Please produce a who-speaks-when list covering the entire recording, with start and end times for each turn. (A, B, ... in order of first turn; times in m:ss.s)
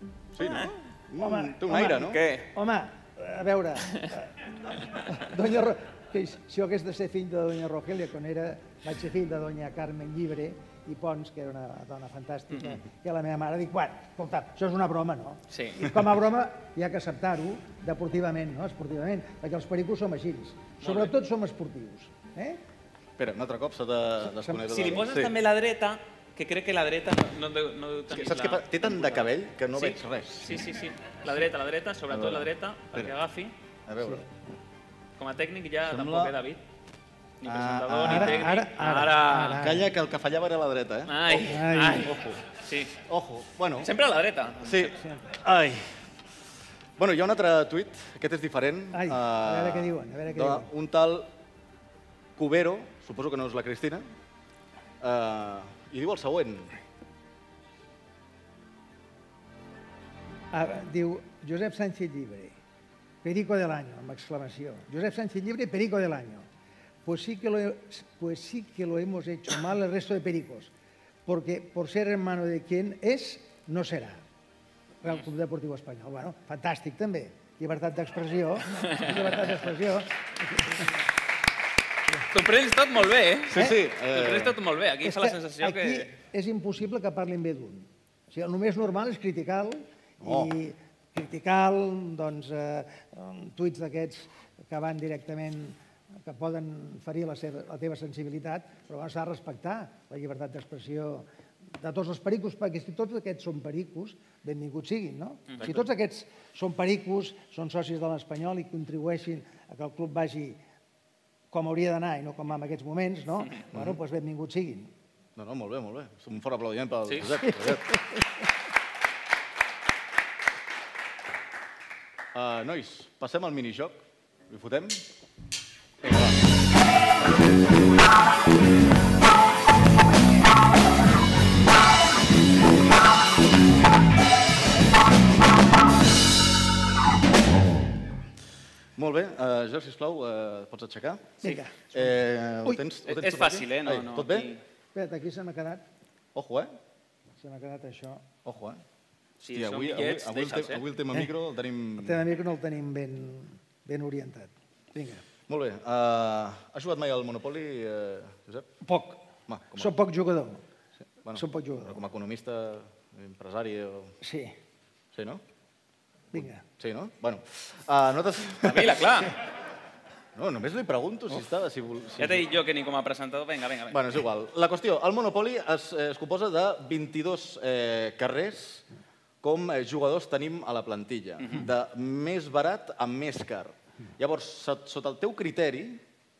0:00.3-0:02.2 A
0:01.2-0:22.6 B
0:01.9-0:02.5 C
0:12.5-0:12.8 C
0:15.5-0:15.8 C
0:20.8-0:21.1 C
0:23.2-0:25.3 A
0:24.4-0:24.6 B
0:24.7-0:33.5 C
0:28.1-0:30.6 A
0:32.1-0:33.1 A
0:33.8-0:34.2 A
0:35.2-0:36.6 C
0:35.8-0:36.3 A
0:37.4-0:39.6 C
0:37.4-0:38.5 A
0:38.0-0:39.9 B
0:39.6-0:42.4 A
0:41.1-0:42.9 C
0:41.5-0:42.1 B
0:43.0-0:43.9 A
0:43.8-0:44.9 C
0:44.6-0:46.0 A
0:45.0-0:45.4 B
0:47.0-0:51.3 A
0:48.9-0:50.7 B
0:52.4-0:54.0 A
0:55.0-0:56.8 A
1:00.5-1:02.6 B
1:03.2-1:06.4 B
1:07.0-1:10.7 B
1:11.2-1:14.2 B
1:15.0-1:20.9 B
1:18.8-1:19.1 C
1:22.3-1:26.1 C
1:23.5-1:24.6 A
1:25.0-1:41.2 B
1:30.2-1:30.5 A
1:41.8-1:50.6 B
1:51.5-1:54.9 B
1:53.7-1:54.0 A
1:55.4-1:57.9 A
1:57.1-1:57.4 C
2:02.3-2:05.0 A
2:19.0-2:21.4 A
2:21.4-2:22.0 B
2:21.9-2:24.5 A
2:23.0-2:24.6 C
2:24.9-2:25.8 B
2:26.3-2:26.7 A
2:27.4-2:28.2 B
2:28.4-2:28.8 A
2:29.4-2:30.8 C
2:29.5-2:32.2 A
2:32.0-2:35.2 B
2:35.5-2:38.7 A
2:38.8-2:39.2 B
2:39.5-2:39.9 A
2:39.8-2:40.6 B
2:41.2-2:44.1 A
2:41.3-2:42.0 B
2:44.2-2:44.5 B
2:45.1-2:45.4 A
2:46.3-2:46.6 B
2:46.3-2:49.0 A
2:48.6-2:49.3 C
2:50.3-2:52.5 A
2:52.2-2:54.0 C
2:53.9-2:58.8 A
2:59.4-3:06.0 A
3:01.4-3:01.7 C